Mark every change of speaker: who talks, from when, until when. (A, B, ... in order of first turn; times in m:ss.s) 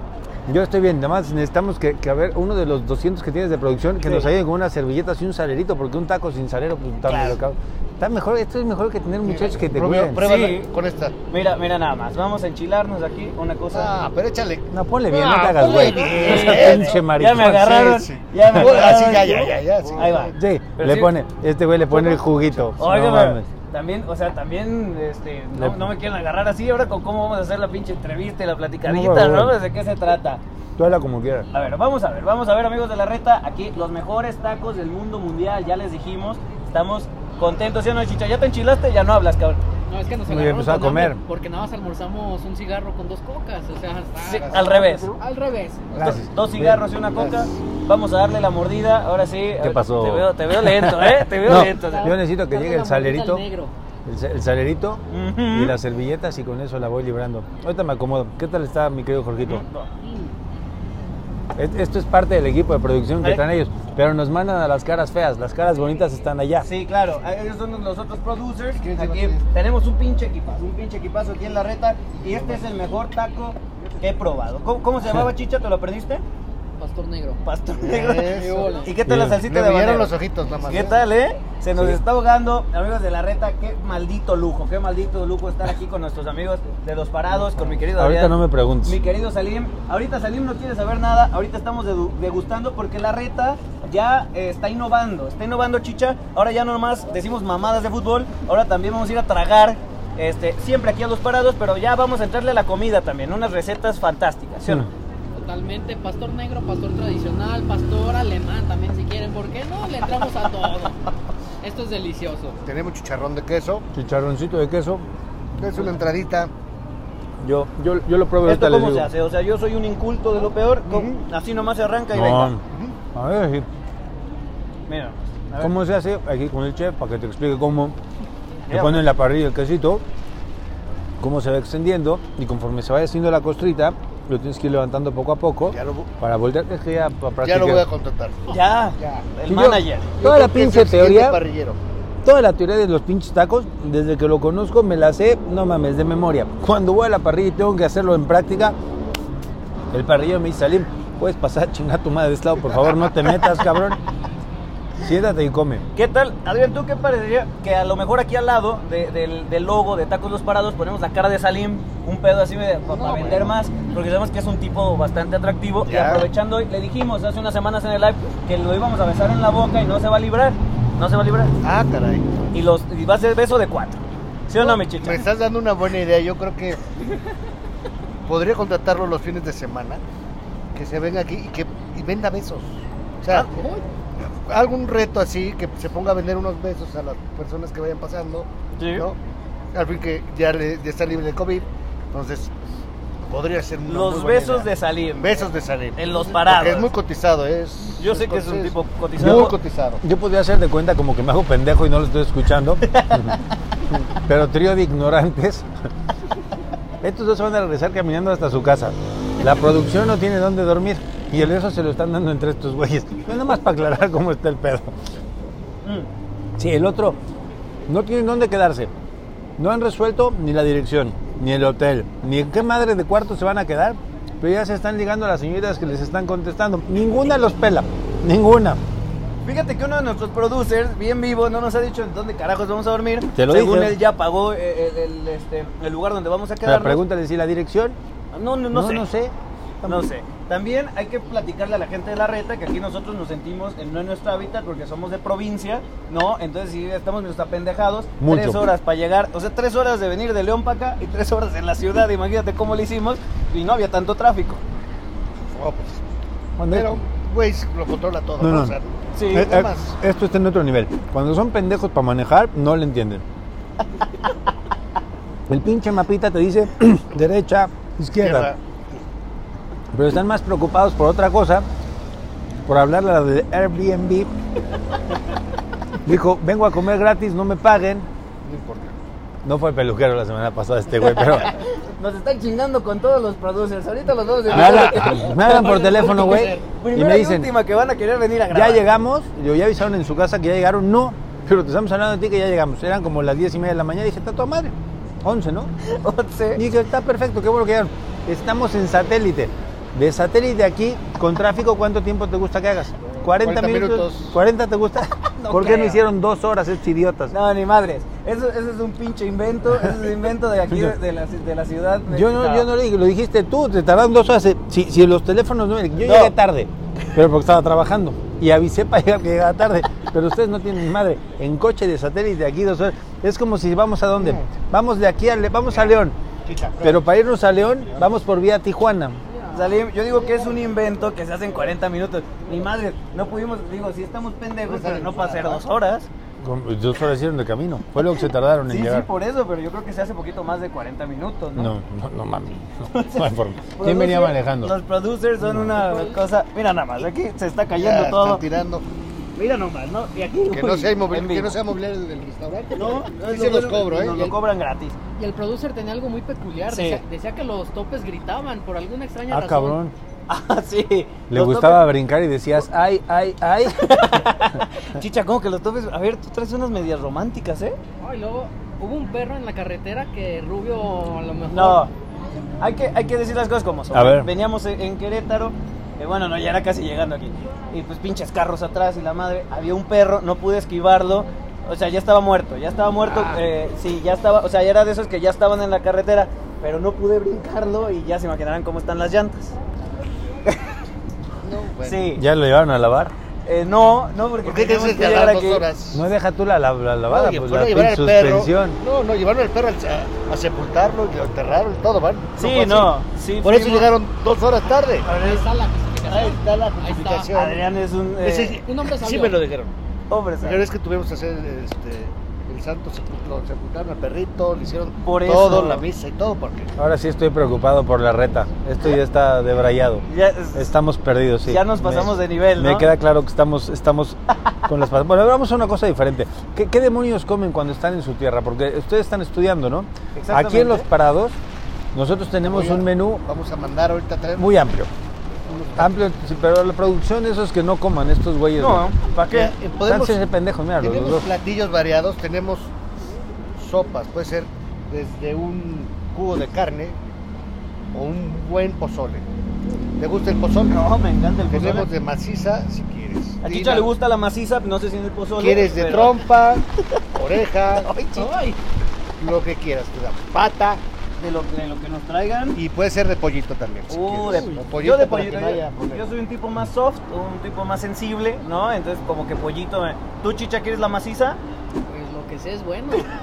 0:00.5-0:10.2 A
0:07.0-0:07.4 B
0:09.2-0:11.2 C
0:10.2-0:10.7 B
0:11.3-0:14.0 B
0:13.7-0:20.4 C
0:14.7-0:18.7 A
0:15.6-0:21.2 B
0:20.3-0:23.5 A
0:21.9-0:22.7 C
0:22.8-0:30.4 B
0:25.6-0:25.8 A
0:28.8-0:29.6 A
0:30.8-0:31.5 A
0:31.5-0:39.6 B
0:39.9-0:45.9 D
0:40.3-0:41.2 A
0:44.2-0:44.8 C
0:44.4-0:45.1 B
0:45.9-0:46.8 A
0:46.0-0:52.2 B
0:47.0-0:47.6 C
0:49.6-0:53.4 A
0:51.5-0:53.7 D
0:54.0-0:59.6 A
0:55.1-0:55.7 B
0:59.4-0:59.9 B
1:01.6-1:06.7 A
1:06.6-1:16.2 B
1:08.8-1:09.5 C
1:12.2-1:12.6 C
1:16.8-1:17.4 D
1:17.4-1:44.9 B
1:17.7-1:18.9 C
1:18.2-1:18.9 D
1:19.0-1:19.4 A
1:19.4-1:21.1 C
1:21.7-1:22.0 A
1:28.0-1:29.0 A
1:45.3-1:51.0 D
1:51.6-1:52.6 D
1:52.6-1:53.8 C
1:53.9-1:55.0 A
1:55.6-1:56.5 C
1:57.4-1:59.1 A
1:58.4-2:02.5 B
2:00.8-2:01.1 C
2:02.1-2:02.6 A
2:02.7-2:03.0 C
2:03.1-2:03.7 A
2:04.9-2:05.7 B
2:05.6-2:08.0 A
2:08.7-2:09.1 B
2:08.7-2:10.0 A
2:11.2-2:17.9 A
2:15.7-2:16.1 C
2:17.4-2:19.3 C
2:18.5-2:20.1 B
2:19.5-2:21.4 A
2:20.2-2:21.8 C
2:22.2-2:28.8 A
2:29.9-2:34.0 A
2:35.0-2:35.8 A
2:35.9-2:51.6 B
2:42.9-2:43.5 C
2:45.8-2:46.3 C
2:51.6-2:52.3 C
2:52.5-2:55.2 B
2:54.5-2:56.8 C
2:58.2-3:00.0 C
3:00.7-3:03.5 C
3:03.5-3:03.8 D
3:04.2-3:09.2 C
3:08.8-3:09.1 B
3:09.7-3:12.5 C
3:13.2-3:20.0 C
3:13.8-3:16.9 B
3:18.0-3:19.6 B
3:19.2-3:23.4 A
3:22.8-3:23.4 B
3:23.9-3:25.7 A
3:27.0-3:34.9 A
3:35.8-3:36.1 B
3:36.6-3:37.2 A
3:37.9-3:38.9 A
3:39.6-3:48.8 A
3:49.4-3:57.0 B
3:53.4-3:54.0 A
3:56.6-3:58.0 A
3:58.3-3:59.1 B
3:58.7-4:00.1 A
3:59.8-4:14.6 B
4:08.2-4:08.7 A
4:15.5-4:16.0 C
4:16.6-4:17.0 A
4:16.7-4:19.9 C
4:18.4-4:18.8 A
4:19.1-4:19.5 B
4:19.3-4:23.2 A
4:25.5-4:28.5 A
4:28.1-4:28.6 C
4:29.9-4:31.6 A
4:32.6-4:34.3 A
4:36.0-4:38.1 A
4:38.4-4:39.0 C
4:39.4-4:41.5 A
4:41.0-4:48.9 B
4:44.5-4:47.5 A
4:44.5-4:45.1 C
4:45.3-4:46.6 D
4:48.5-4:55.7 A
4:55.8-4:56.6 B
4:56.6-5:07.3 A
5:03.4-5:04.4 C
5:05.4-5:06.0 B
5:07.3-5:12.7 B
5:10.7-5:10.9 A
5:12.1-5:26.2 A
5:16.0-5:16.3 B
5:24.2-5:24.4 C
5:25.7-5:27.0 C
5:26.8-5:29.2 A
5:29.3-5:29.6 D
5:29.5-5:36.1 B
5:34.6-5:35.6 C
5:36.4-5:39.1 A
5:38.7-5:41.7 B
5:41.6-5:44.7 A
5:42.9-5:48.4 B
5:45.4-5:45.8 A
5:45.7-5:46.2 D
5:47.8-5:48.8 C
5:49.4-5:51.6 B
5:50.5-5:54.3 C
5:52.7-5:55.0 B
5:55.2-5:59.8 D
5:56.7-5:57.0 B
5:59.3-5:59.9 A
6:00.3-6:01.8 B
6:01.3-6:04.3 A
6:03.7-6:07.8 B
6:08.0-6:11.9 D
6:11.5-6:11.9 B
6:12.6-6:29.5 B
6:13.9-6:14.3 A
6:23.1-6:23.4 A
6:31.4-6:32.1 C
6:31.8-6:32.2 B
6:32.1-6:33.1 A
6:33.4-6:35.6 B
6:34.4-6:36.0 C
6:35.9-6:38.8 A
6:37.1-6:45.2 C
6:42.4-6:43.9 B
6:45.0-6:45.4 B
6:45.0-6:47.3 D
6:46.0-6:49.7 C
6:47.3-6:48.6 B
6:48.6-6:49.4 D
6:50.1-6:50.6 B
6:50.4-6:56.7 C
6:55.0-6:55.8 B
6:56.8-7:11.4 A
7:00.1-7:00.7 B
7:01.4-7:02.9 B
7:10.1-7:10.9 B
7:11.9-7:13.2 A
7:12.4-7:14.6 C
7:14.4-7:14.9 A
7:15.5-7:15.9 C
7:15.8-7:18.9 A
7:18.6-7:19.5 B
7:19.3-7:20.2 C
7:19.8-7:21.3 A
7:20.8-7:22.7 C
7:23.6-7:27.0 C
7:27.9-7:29.3 C
7:30.0-7:30.8 C
7:30.7-7:31.9 B
7:31.5-7:33.9 C
7:33.4-7:36.2 B
7:35.4-7:37.9 C
7:37.7-7:38.3 B
7:38.2-7:38.6 D
7:39.2-7:40.8 C
7:41.2-7:42.6 B
7:42.5-7:46.0 C
7:43.9-7:51.4 B
7:51.9-7:53.1 D